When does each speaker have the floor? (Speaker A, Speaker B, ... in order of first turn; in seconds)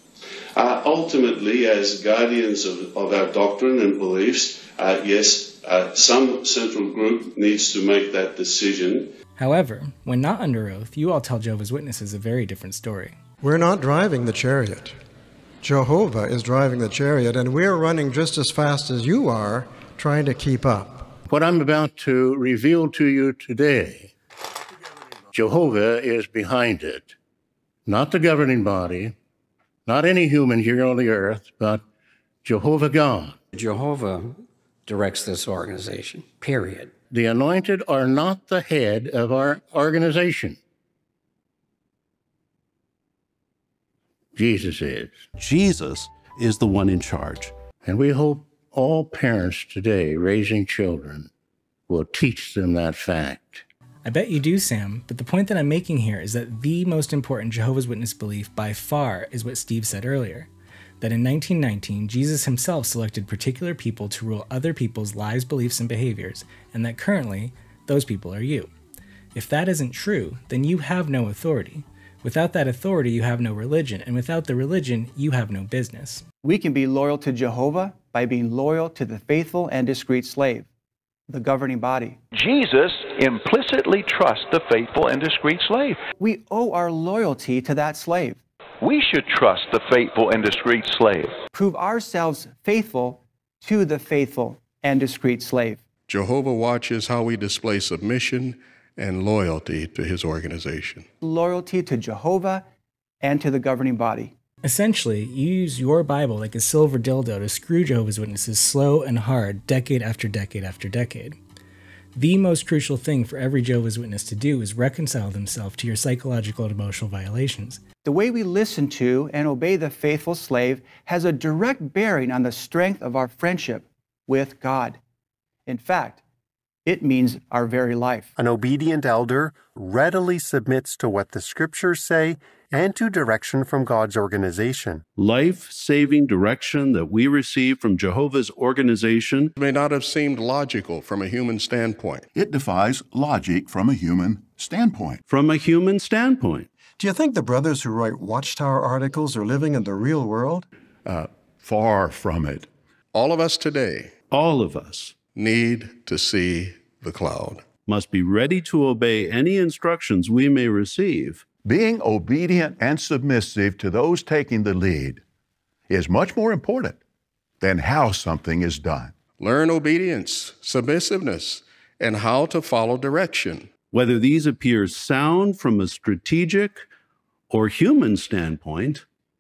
Speaker A: 0.6-9.1
Speaker B: 9.4-13.2, 54.0-60.5, 61.0-68.7, 69.3-76.2, 104.6-111.4, 112.2-117.8
Speaker C: 13.4-15.0, 15.6-21.1, 147.0-150.7
Speaker D: 21.3-24.1, 25.3-27.1, 27.9-29.1, 29.9-31.8, 32.4-33.4, 37.1-40.6, 44.4-45.3, 47.8-51.3, 51.9-53.6
Speaker E: 33.5-37.0
Speaker F: 45.4-47.5, 135.2-139.5, 145.3-146.7, 154.3-155.2, 157.9-161.4, 173.9-176.9, 177.5-179.1
Speaker G: 76.4-80.7, 81.3-82.2, 86.2-88.4, 91.5-95.8, 101.2-102.6, 103.2-104.3, 118.0-125.0, 125.7-126.2, 126.9-128.3
Speaker H: 82.3-86.0, 88.8-91.3
Speaker I: 96.1-101.1, 139.6-142.3, 153.1-154.2, 155.3-157.7, 169.4-173.7
Speaker J: 128.4-135.0
Speaker K: 142.3-145.2, 151.1-152.7, 161.7-165.2, 165.9-167.0, 167.6-169.2